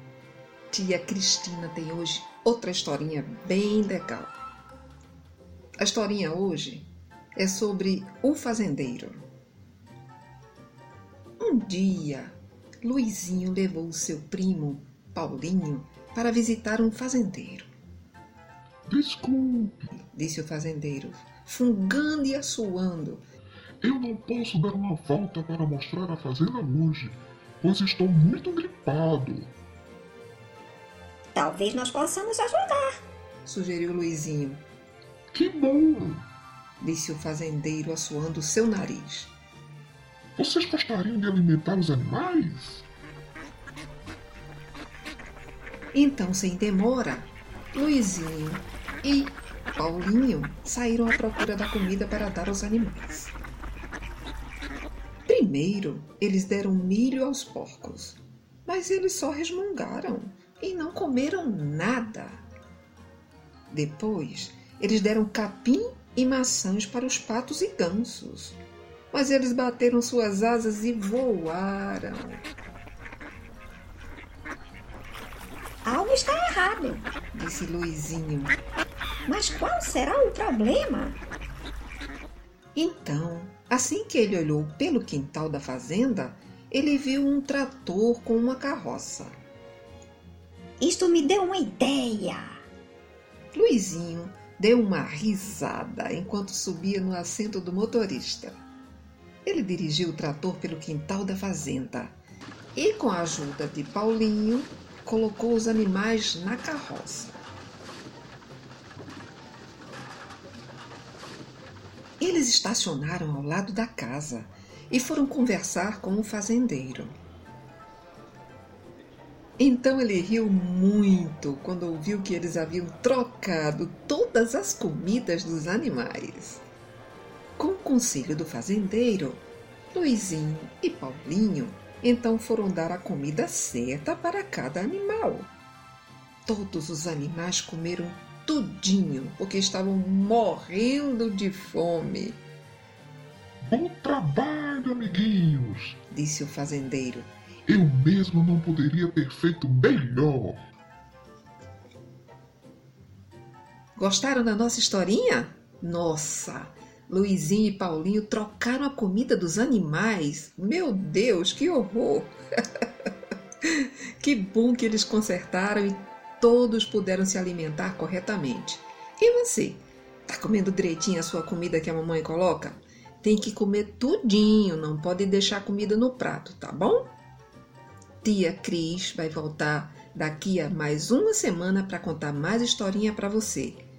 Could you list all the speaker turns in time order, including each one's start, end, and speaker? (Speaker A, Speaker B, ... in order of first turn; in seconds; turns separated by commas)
Speaker A: 0.7-4.3, Speaker A: 5.8-9.2, Speaker A: 11.4-17.7, Speaker B: 18.9-19.8, Speaker A: 19.9-23.2, Speaker B: 23.8-29.5, Speaker C: 31.3-33.0, Speaker A: 33.4-34.6, Speaker B: 35.3-36.2, Speaker A: 36.8-39.3, Speaker B: 40.4-42.9, Speaker A: 45.9-53.3, Speaker A: 55.3-62.4, Speaker A: 63.7-68.6, Speaker A: 69.1-72.4, Speaker C: 75.8-77.1, Speaker A: 77.3-78.5, Speaker C: 79.2-81.2, Speaker A: 82.7-89.3, Speaker C: 90.8-92.6, Speaker A: 93.5-98.6, Speaker A: 99.4-102.2, Speaker A: 102.7-107.4, Speaker A: 112.2-117.1, Speaker A: 119.6-126.6, Speaker A: 127.6-135.5, Speaker A: 136.4-142.4, Speaker B: 143.6-146.0, Speaker A: 146.1-147.3, Speaker B: 147.7-150.6, Speaker A: 153.9-162.3, Speaker A: 163.6-177.1, Speaker A: 178.2-183.8